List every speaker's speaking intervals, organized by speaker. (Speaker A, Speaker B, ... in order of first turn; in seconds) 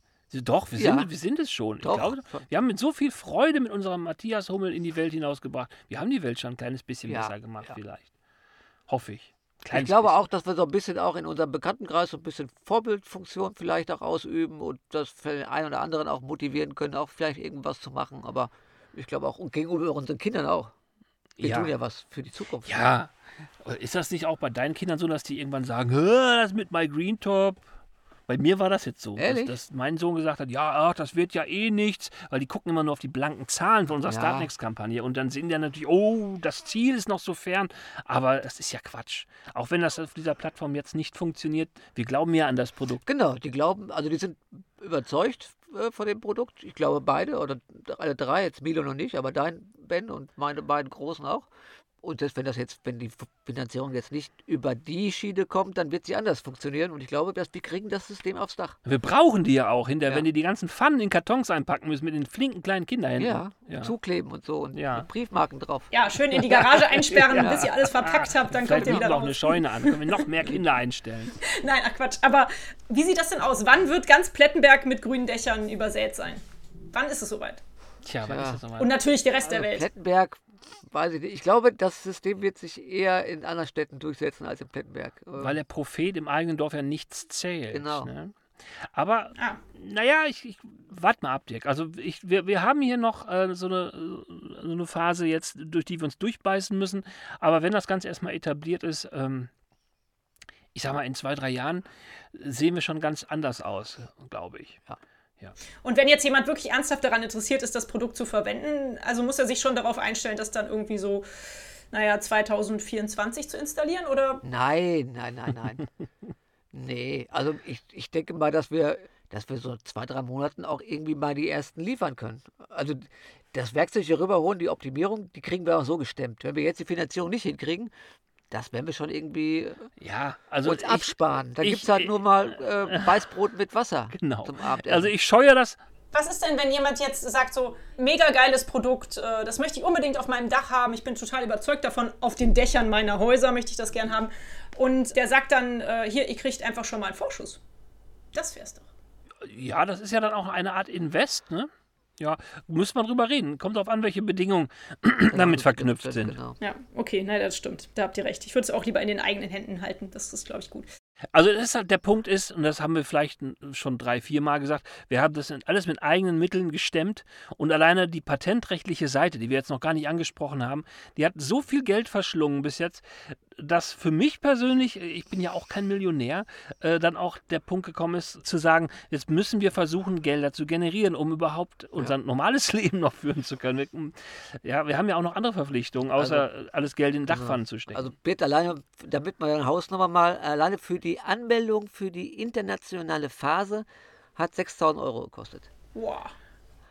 Speaker A: 0.3-8.1, 8.9-10.2, 21.4-21.7, 22.6-27.6, 28.3-43.0, 58.9-63.9, 64.7-65.1, 66.5-71.4, 78.0-78.9, 85.4-99.5, 100.7-104.8, 130.0-133.2, 134.1-135.8, 149.4-156.4, 161.3-188.1
Speaker B: 0.8-1.1, 1.8-2.4, 7.1-7.3, 9.7-20.7, 21.4-22.8, 29.2-29.6, 34.1-34.5, 43.0-51.5, 52.0-58.8, 63.2-65.9, 67.3-67.7, 68.8-69.1, 78.2-78.6, 79.4-85.6, 87.7-88.1, 114.4-115.8, 116.7-127.9, 128.5-129.9, 130.6-135.1, 155.3-156.6, 186.2-186.5, 187.3-193.8, 194.3-195.7
Speaker C: 65.9-70.2, 71.4-77.6, 78.8-79.9, 105.8-111.2, 111.9-114.4, 136.1-147.6, 148.3-148.9, 156.6-160.9, 195.9-196.3